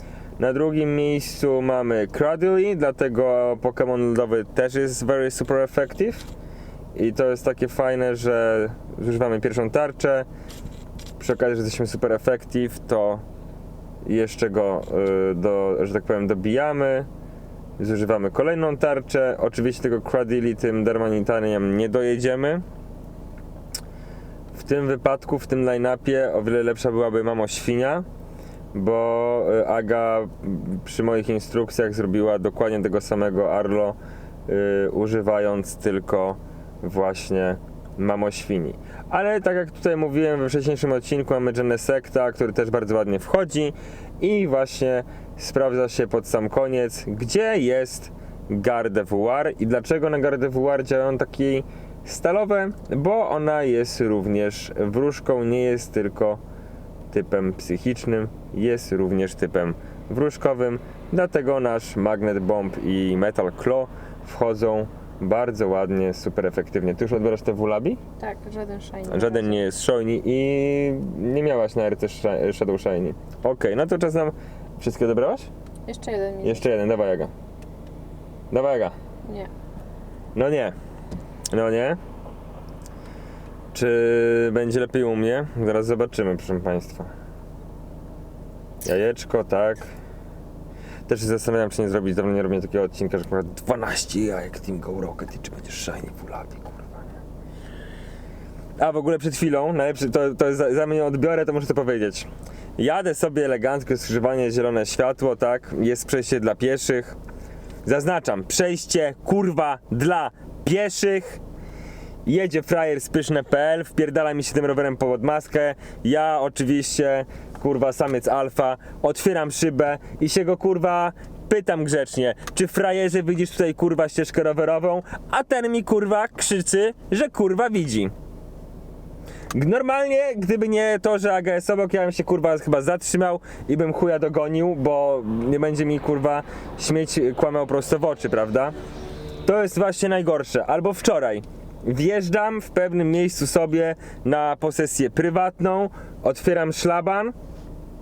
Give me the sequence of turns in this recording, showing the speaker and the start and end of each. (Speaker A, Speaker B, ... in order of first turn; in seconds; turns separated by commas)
Speaker A: 0.4-6.3, Speaker A: 6.9-10.3, Speaker A: 11.2-13.2, Speaker A: 14.0-17.1, Speaker A: 17.8-22.6, Speaker A: 24.5-28.0, Speaker A: 28.7-34.0, Speaker A: 34.5-56.4, Speaker A: 57.1-68.0, Speaker B: 68.2-69.6, Speaker A: 69.1-75.5, Speaker B: 75.9-76.6, Speaker A: 76.4-77.3, Speaker A: 78.5-79.0, Speaker B: 79.2-79.5, Speaker A: 80.3-80.7, Speaker A: 81.5-82.0, Speaker A: 83.7-87.1, Speaker A: 88.8-89.9, Speaker A: 91.1-97.1, Speaker A: 98.8-107.2, Speaker A: 107.8-111.4, Speaker A: 112.2-128.1, Speaker A: 129.5-138.7, Speaker A: 139.4-147.3